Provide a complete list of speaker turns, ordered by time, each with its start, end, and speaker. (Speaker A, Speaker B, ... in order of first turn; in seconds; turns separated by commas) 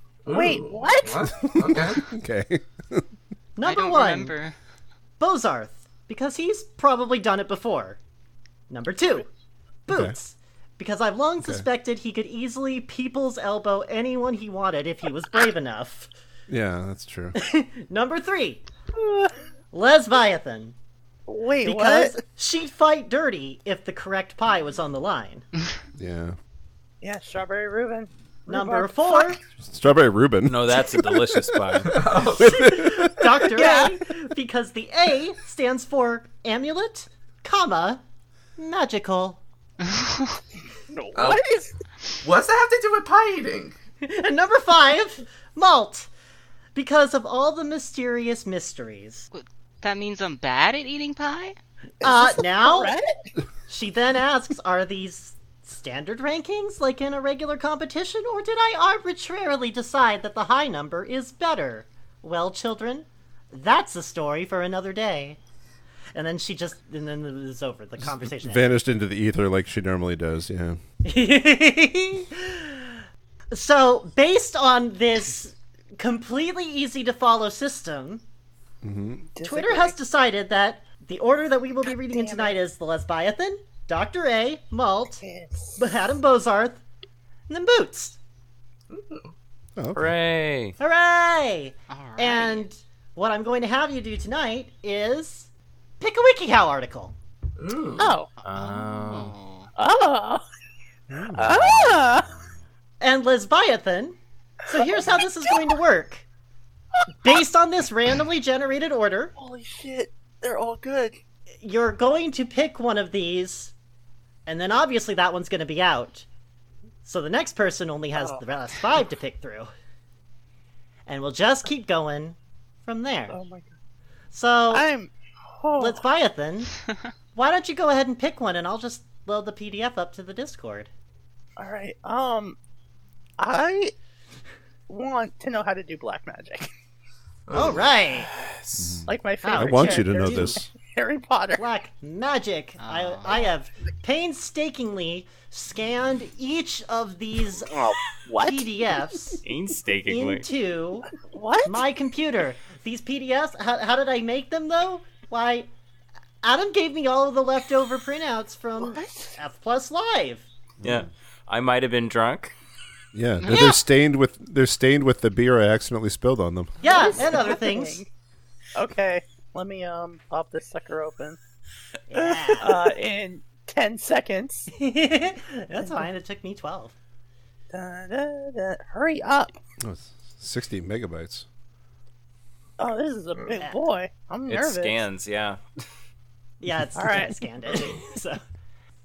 Speaker A: 0.2-2.0, Speaker B: 0.3-1.3, Speaker C: 1.4-3.1, Speaker D: 3.5-4.3, Speaker E: 3.6-4.6, Speaker D: 5.2-8.0, Speaker D: 8.7-9.3, Speaker D: 9.8-16.1, Speaker C: 9.9-10.1, Speaker C: 16.5-17.4, Speaker D: 17.3-18.6, Speaker B: 19.0-19.3, Speaker D: 19.7-20.8, Speaker B: 21.3-22.2, Speaker D: 21.6-25.4, Speaker C: 26.0-26.4, Speaker B: 27.0-29.4, Speaker D: 28.5-29.4, Speaker C: 29.6-33.5, Speaker F: 30.5-32.0, Speaker A: 31.9-32.7, Speaker D: 32.4-38.0, Speaker B: 33.5-33.9, Speaker D: 38.6-39.4, Speaker E: 39.8-40.4, Speaker B: 40.9-41.7, Speaker A: 41.1-41.4, Speaker A: 42.2-43.8, Speaker D: 44.0-46.1, Speaker D: 46.7-49.3, Speaker E: 49.3-51.6, Speaker D: 52.0-52.9, Speaker B: 52.0-53.1, Speaker D: 53.7-65.4, Speaker D: 66.1-68.8, Speaker C: 68.2-70.8, Speaker D: 71.0-78.2, Speaker C: 78.8-79.3, Speaker B: 79.3-80.0, Speaker D: 79.4-85.2, Speaker B: 81.8-82.5, Speaker B: 85.2-85.8, Speaker D: 85.8-86.8, Speaker D: 87.5-88.2, Speaker A: 88.9-89.3, Speaker C: 89.8-90.2, Speaker F: 90.0-90.7, Speaker D: 90.8-95.5, Speaker E: 91.9-92.7, Speaker D: 96.0-97.1, Speaker A: 97.6-98.2, Speaker B: 98.0-98.3, Speaker E: 98.4-99.7, Speaker F: 98.4-99.3, Speaker B: 99.8-100.4, Speaker C: 101.1-101.8, Speaker B: 101.4-102.3, Speaker F: 101.4-102.0, Speaker D: 103.0-106.2, Speaker D: 107.2-109.3, Speaker B: 109.4-111.2, Speaker D: 111.6-113.7, Speaker D: 114.5-116.2, Speaker D: 117.0-119.7, Speaker B: 118.2-118.4, Speaker D: 121.1-123.4, Speaker B: 123.3-123.7, Speaker D: 124.3-124.9, Speaker B: 124.7-126.0, Speaker D: 125.8-126.7, Speaker D: 127.3-130.9, Speaker B: 131.6-132.6, Speaker B: 133.4-133.9, Speaker B: 134.9-136.7, Speaker A: 137.5-137.9, Speaker D: 137.5-138.3, Speaker F: 138.3-139.0, Speaker C: 138.8-140.7, Speaker B: 139.1-141.6, Speaker D: 139.4-140.6, Speaker D: 141.6-147.7, Speaker E: 142.8-143.5, Speaker B: 147.7-148.7, Speaker D: 148.4-149.4, Speaker F: 149.4-150.4, Speaker D: 150.1-151.1, Speaker B: 151.2-151.8, Speaker D: 151.6-155.7, Speaker D: 156.4-160.4, Speaker B: 158.8-159.4, Speaker F: 160.8-162.5, Speaker C: 163.1-166.8, Speaker E: 163.4-163.8, Speaker D: 166.8-168.0, Speaker B: 166.8-168.1, Speaker B: 168.7-171.4, Speaker D: 172.1-172.9, Speaker B: 172.2-174.7, Speaker D: 174.7-176.9, Speaker B: 175.8-176.1, Speaker B: 177.7-179.6, Speaker C: 179.8-181.4, Speaker B: 182.8-185.0, Speaker F: 184.5-185.6, Speaker D: 186.6-188.4, Speaker B: 186.9-187.4